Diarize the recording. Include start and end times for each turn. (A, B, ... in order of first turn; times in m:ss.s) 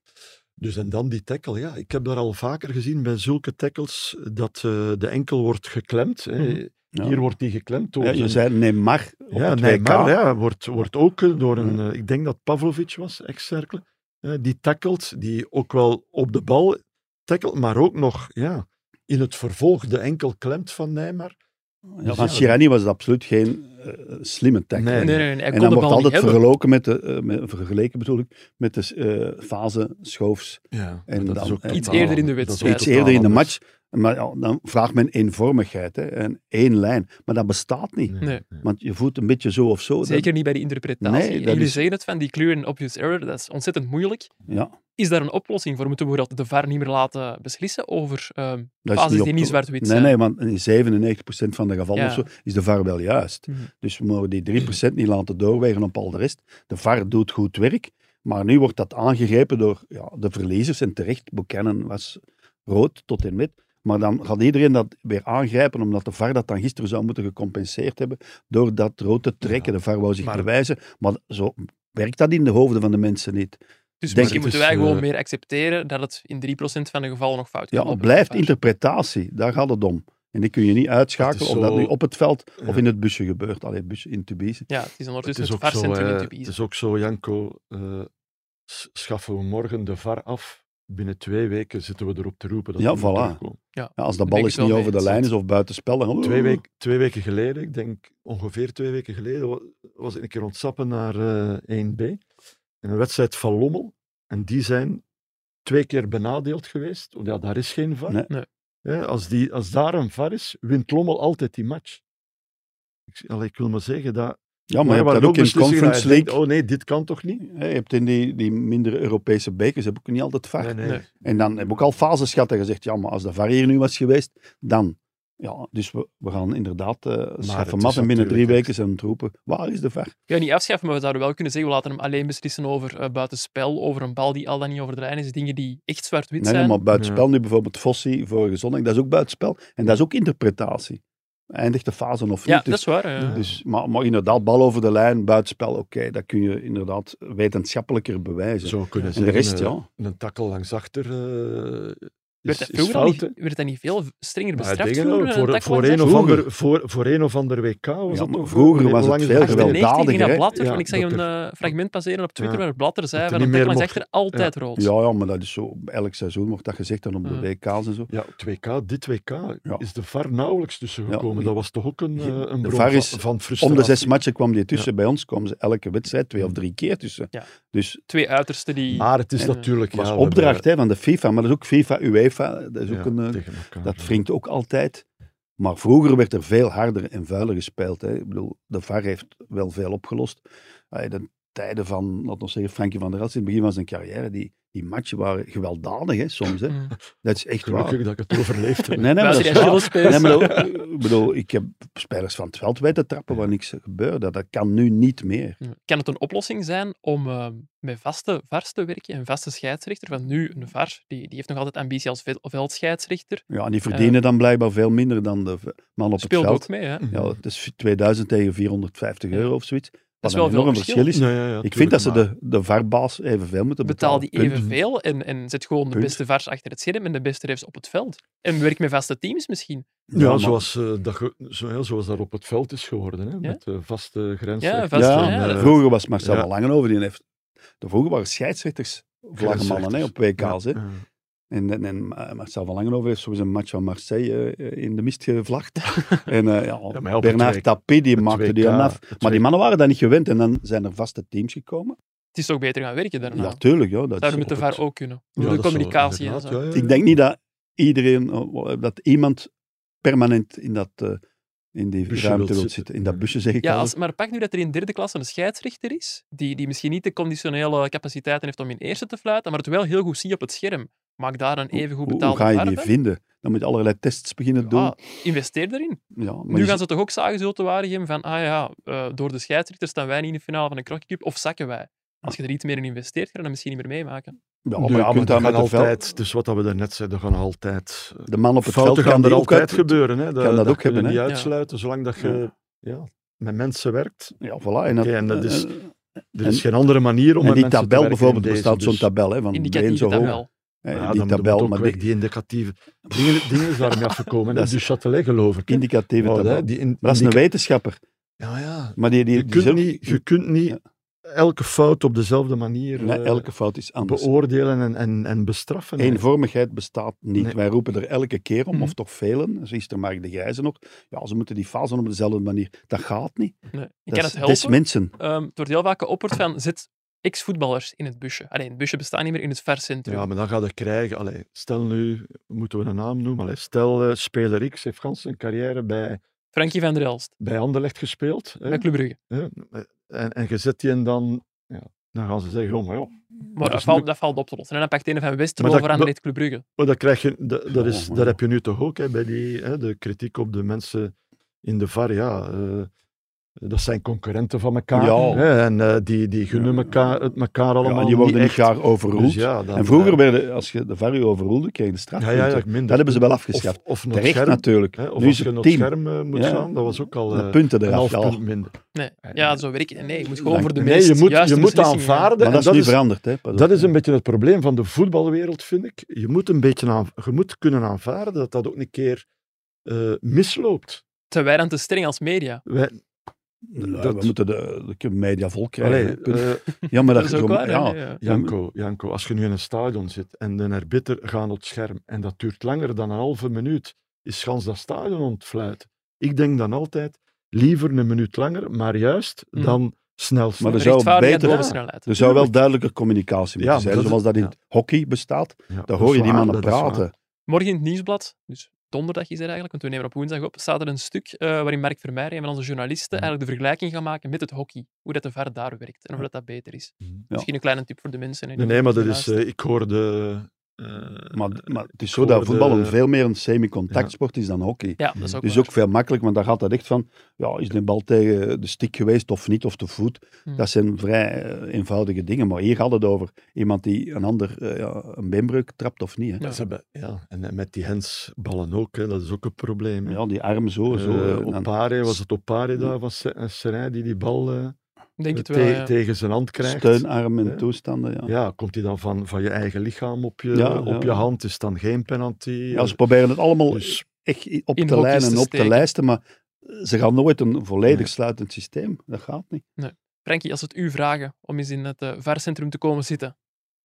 0:00.6-0:08.4 A
0:06.9-0:07.2 B
0:08.0-0:10.2 B
0:09.3-0:21.4 A
0:22.0-0:40.3 B
0:22.0-0:22.6 A
0:24.8-0:25.2 A
0:25.0-0:26.4 C
0:30.7-0:33.5 A
0:31.7-0:33.2 C
0:38.1-0:38.6 A
0:40.0-0:44.3 C
0:41.0-0:41.8 B
0:44.5-0:44.8 B
0:45.0-0:50.2 C
0:48.8-1:14.4 B
0:51.9-0:52.3 C
1:10.2-1:10.5 A
1:14.0-1:18.5 C
1:14.1-1:15.0 A
1:17.7-1:24.6 B
1:21.2-1:21.9 A
1:24.7-1:26.5 C
1:25.2-1:28.1 A
1:28.7-1:33.6 A
1:32.8-1:33.4 B
1:33.8-1:35.3 C
1:34.0-1:36.6 B
1:36.2-1:42.2 A
1:42.8-1:45.0 A
1:45.6-1:48.2 A
1:48.8-1:52.0 A
1:53.1-1:57.4 A
1:54.7-1:56.4 B
1:57.4-2:10.1 B
2:00.6-2:01.8 A
2:07.4-2:08.7 A
2:10.3-2:16.8 C
2:16.4-2:29.8 B
2:16.9-2:17.2 A
2:22.4-2:23.4 C
2:23.2-2:23.5 A
2:28.6-2:33.3 A
2:32.5-2:36.1 C
2:34.6-2:39.9 A
2:36.0-2:36.5 B
2:38.1-2:40.5 B
2:39.4-2:44.9 C
2:40.5-2:41.2 A
2:43.2-2:44.5 A
2:44.8-2:48.1 B
2:48.1-2:54.2 A
2:51.1-2:51.5 B
2:52.2-2:58.0 B
2:58.1-2:59.7 C
2:58.9-3:00.6 A
2:59.9-3:05.0 B
3:02.9-3:04.2 A
3:05.6-3:18.0 B
3:16.7-3:16.9 C
3:17.6-3:20.7 A
3:19.0-3:25.6 B
3:19.2-3:20.6 C
3:25.6-3:34.2 C
3:33.5-3:44.6 B
3:36.2-3:37.0 C
3:37.0-3:37.4 A
3:40.2-3:41.1 C
3:41.1-3:42.3 A
3:43.8-3:49.8 C
3:44.5-3:44.8 A
3:45.9-3:46.2 B
3:50.1-3:50.6 B
3:50.1-3:56.5 A
3:54.6-3:55.8 C
3:54.9-3:57.2 B
3:57.8-4:00.8 B
3:59.4-4:01.0 A
4:01.5-4:12.0 B
4:06.9-4:09.4 A
4:12.3-4:13.6 C
4:13.3-4:14.8 B
4:14.2-4:16.6 C
4:15.4-4:17.0 A
4:16.7-4:19.5 B
4:20.0-4:21.2 B
4:21.7-4:23.9 B
4:22.1-4:23.3 A
4:23.6-4:32.9 C
4:31.7-4:35.0 B
4:34.6-4:44.3 C
4:36.1-4:36.8 B
4:44.6-4:46.0 B
4:44.8-4:54.3 A
4:48.3-4:51.2 B
4:54.4-4:55.9 B
4:54.9-4:55.7 A
4:56.3-4:59.1 A
4:56.4-4:56.6 B
4:57.4-5:02.0 B
4:59.5-5:00.5 C
5:00.2-5:07.4 A
5:03.1-5:03.8 B
5:04.5-5:04.8 B
5:05.7-5:08.0 B
5:08.4-5:13.5 A
5:09.0-5:10.8 B
5:13.0-5:14.3 B
5:14.0-5:16.2 A
5:16.0-5:23.6 B
5:23.7-5:30.3 C
5:24.1-5:25.1 B
5:30.1-5:36.2 A
5:36.5-5:37.3 C
5:37.4-5:44.0 A
5:38.7-5:39.2 C
5:43.5-5:46.6 C
5:45.6-5:46.1 A
5:46.8-5:51.1 A
5:47.7-5:48.4 B
5:51.6-5:52.9 A
5:53.6-6:00.2 A
5:54.9-5:55.4 B
5:55.2-5:55.4 C
5:56.5-5:57.2 B
5:57.8-6:08.4 B
6:02.2-6:09.6 A
6:08.9-6:12.3 C
6:10.4-6:10.7 B
6:10.7-6:13.0 A
6:12.4-6:13.9 B
6:13.5-6:19.2 A
6:19.8-6:21.0 A
6:21.3-6:22.6 C
6:22.6-6:23.0 A
6:23.7-6:28.5 B
6:23.8-6:24.3 A
6:25.8-6:26.7 A
6:27.0-6:28.2 C
6:28.2-6:42.5 A
6:40.6-6:47.1 B
6:40.7-6:42.1 C
6:43.6-6:44.5 A
6:45.7-6:47.0 A
6:47.5-6:59.3 C
6:58.6-7:03.0 A
7:01.3-7:16.4 B
7:05.0-7:05.7 C
7:16.4-7:20.2 A
7:20.0-7:22.2 B
7:20.9-7:24.8 A
7:25.2-7:25.9 C
7:25.3-7:27.6 A
7:26.6-7:28.3 B
7:28.2-7:33.0 A
7:30.5-7:31.3 B
7:32.7-7:39.6 B
7:33.7-7:34.0 A
7:34.8-7:35.9 C
7:39.8-7:43.3 C